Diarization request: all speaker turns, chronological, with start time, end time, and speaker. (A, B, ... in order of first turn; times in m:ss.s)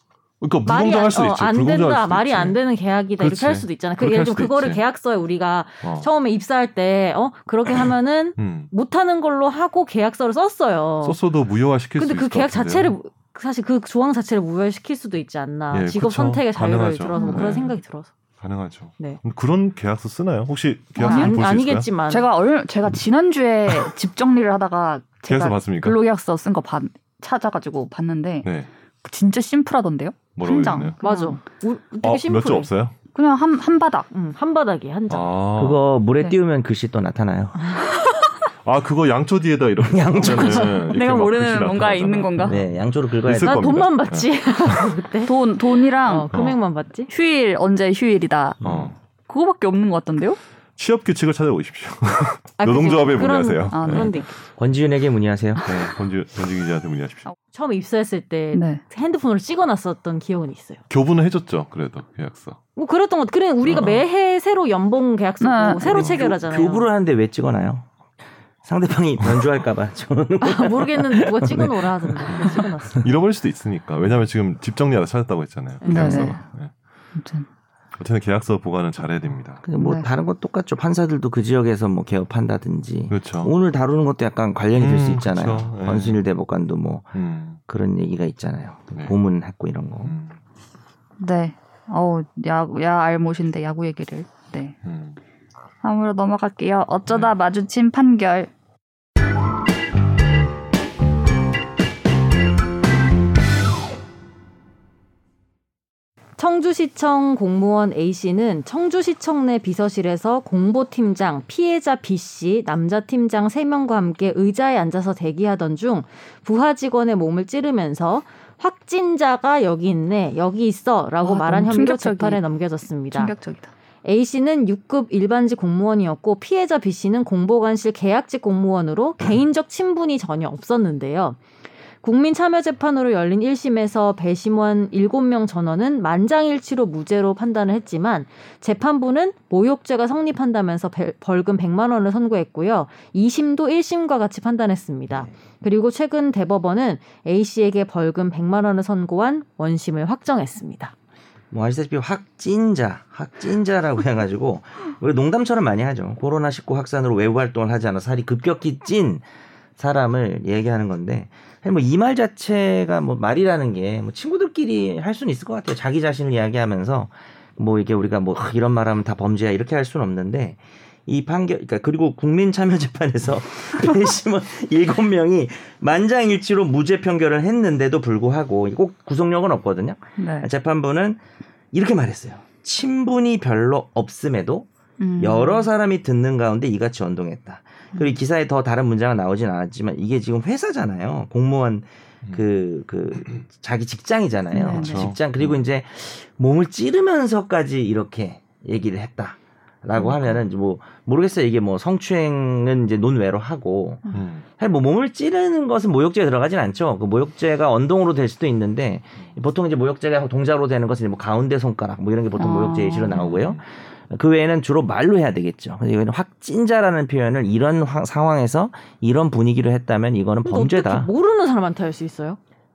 0:00.4-0:02.6 A
0:00.6-0:11.2 B
0:03.2-0:04.8 A
0:05.8-0:06.1 A
0:08.4-0:08.7 A
0:11.0-0:12.9 A
0:12.0-0:18.1 B
0:15.7-0:17.8 A
0:17.1-0:17.6 C
0:18.4-0:21.9 A
0:21.0-0:21.4 C
0:21.0-0:22.3 B
0:22.1-0:28.5 C
0:25.3-0:26.0 A
0:28.4-0:28.7 A
0:29.0-0:31.4 C
0:30.3-0:31.0 A
0:31.0-0:32.7 B
0:32.0-0:32.9 A
0:33.1-0:34.1 C
0:34.1-0:35.3 B
0:35.1-0:35.8 A
0:35.6-0:37.6 D
0:37.7-0:38.2 B
0:38.6-0:42.6 A
0:39.8-0:40.9 D
0:40.9-0:42.6 C
0:42.4-0:43.8 D
0:43.2-0:44.9 A
0:43.3-0:45.4 B
0:45.2-0:46.3 C
0:45.9-0:47.1 B
0:46.3-0:46.6 A
0:47.1-0:48.6 C
0:48.6-0:49.0 A
0:49.3-0:50.4 C
0:50.8-0:54.2 A
0:52.6-0:54.3 B
0:53.7-0:54.3 C
0:54.6-0:55.7 D
0:55.6-0:57.3 A
0:57.5-1:00.8 B
0:58.5-0:58.8 C
1:00.9-1:02.6 A
1:02.8-1:06.9 B
1:03.6-1:04.0 A
1:05.4-1:05.9 C
1:05.8-1:06.3 A
1:05.9-1:07.9 D
1:08.6-1:13.0 D
1:10.4-1:13.0 B
1:13.0-1:16.7 A
1:15.8-1:16.4 B
1:15.8-1:16.4 C
1:17.1-1:17.5 C
1:18.0-1:19.6 A
1:19.6-1:27.1 D
1:19.8-1:20.1 C
1:23.1-1:23.5 A
1:24.7-1:26.2 A
1:27.1-1:27.6 A
1:27.7-1:30.1 D
1:30.0-1:30.4 A
1:31.2-1:34.8 C
1:34.8-1:35.2 A
1:35.8-1:38.5 C
1:46.4-2:03.3 B
2:01.2-2:02.4 C
2:03.1-2:03.7 C
2:04.0-2:11.4 B
2:12.0-2:30.9 B
2:31.5-2:39.2 D
2:39.8-3:01.2 D
3:00.2-3:00.5 C
3:01.7-3:04.7 D
3:05.0-3:05.7 C
3:05.2-3:41.1 D
3:14.5-3:15.1 C
3:14.7-3:15.6 A
3:20.0-3:20.4 A
3:24.1-3:24.4 A
3:32.4-3:33.2 C
3:33.1-3:33.6 A
3:40.4-3:42.4 B